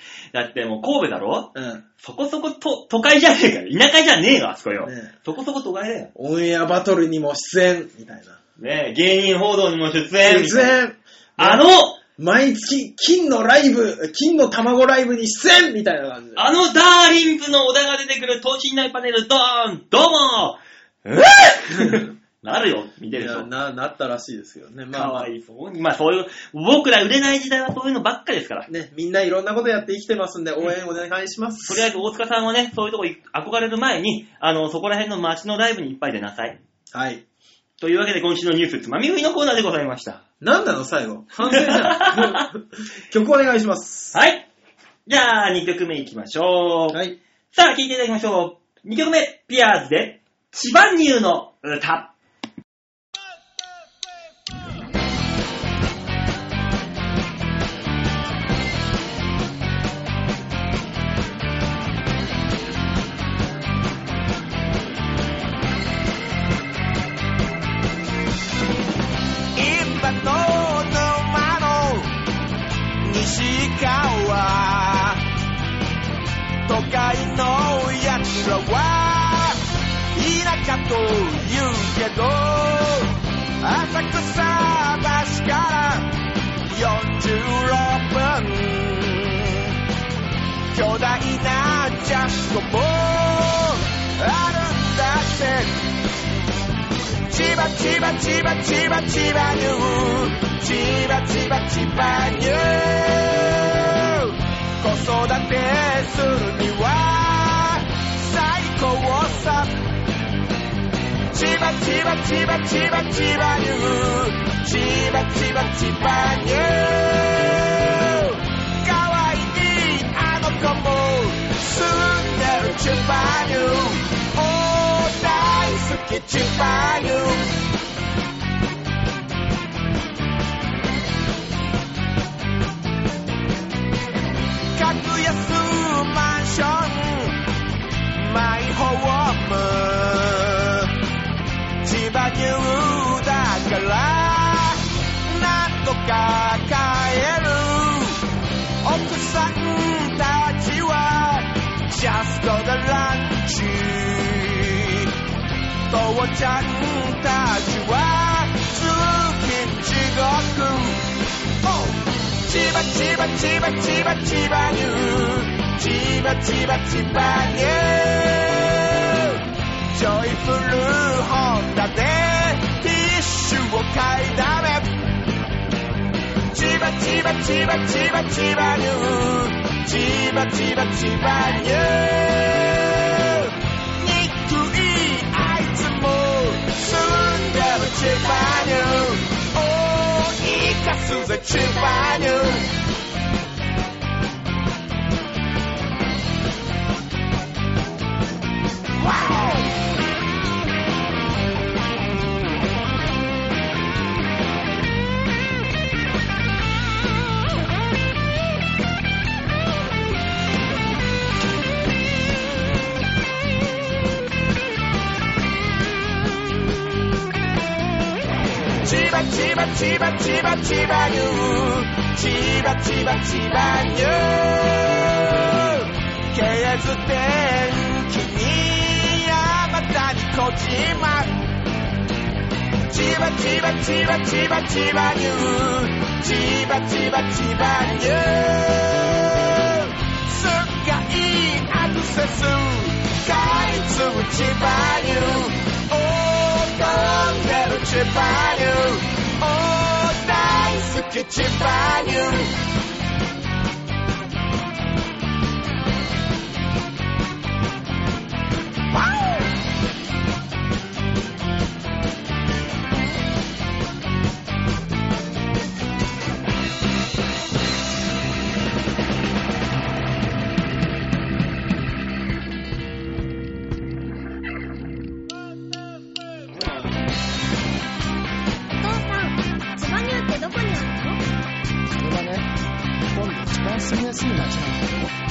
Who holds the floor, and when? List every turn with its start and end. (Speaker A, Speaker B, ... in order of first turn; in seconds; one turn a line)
Speaker A: 0.3-6.1
Speaker B: 1.6-1.8
Speaker B: 4.8-5.1
Speaker B: 6.2-8.4
Speaker A: 8.6-10.8
Speaker B: 10.2-11.7
Speaker A: 11.4-12.0
Speaker B: 12.2-16.5
Speaker A: 16.4-23.5
Speaker B: 21.8-22.1
Speaker B: 23.1-25.3
Speaker A: 24.9-28.7
Speaker B: 28.7-31.9
Speaker A: 31.7-36.6
Speaker B: 36.9-37.2
Speaker A: 37.8-40.2
Speaker B: 40.4-44.2
Speaker A: 41.5-42.5
Speaker A: 44.1-44.5
Speaker A: 45.1-47.0
Speaker B: 46.9-47.2
Speaker A: 47.5-52.1
Speaker C: 69.5-72.1
Speaker C: 73.0-75.2
Speaker C: 76.7-79.6
Speaker C: 80.1-86.1
Speaker C: 86.7-89.7
Speaker C: 90.7-95.8
Speaker C: 97.3-109.7
Speaker C: 111.3-127.5
Speaker C: 134.7-137.4
Speaker C: 138.1-140.9
Speaker C: 141.8-148.2
Speaker C: 148.8-155.1
Speaker C: 155.9-161.0
Speaker C: 161.6-169.4
Speaker C: 169.9-174.9
Speaker C: 176.5-192.6
Speaker C: 199.0-199.7
Speaker C: 218.8-231.3
Speaker C: 232.9-252.5
Speaker C: 258.9-259.5
Speaker D: 278.8-281.2
Speaker E: 281.9-282.5
Speaker E: 283.1-285.1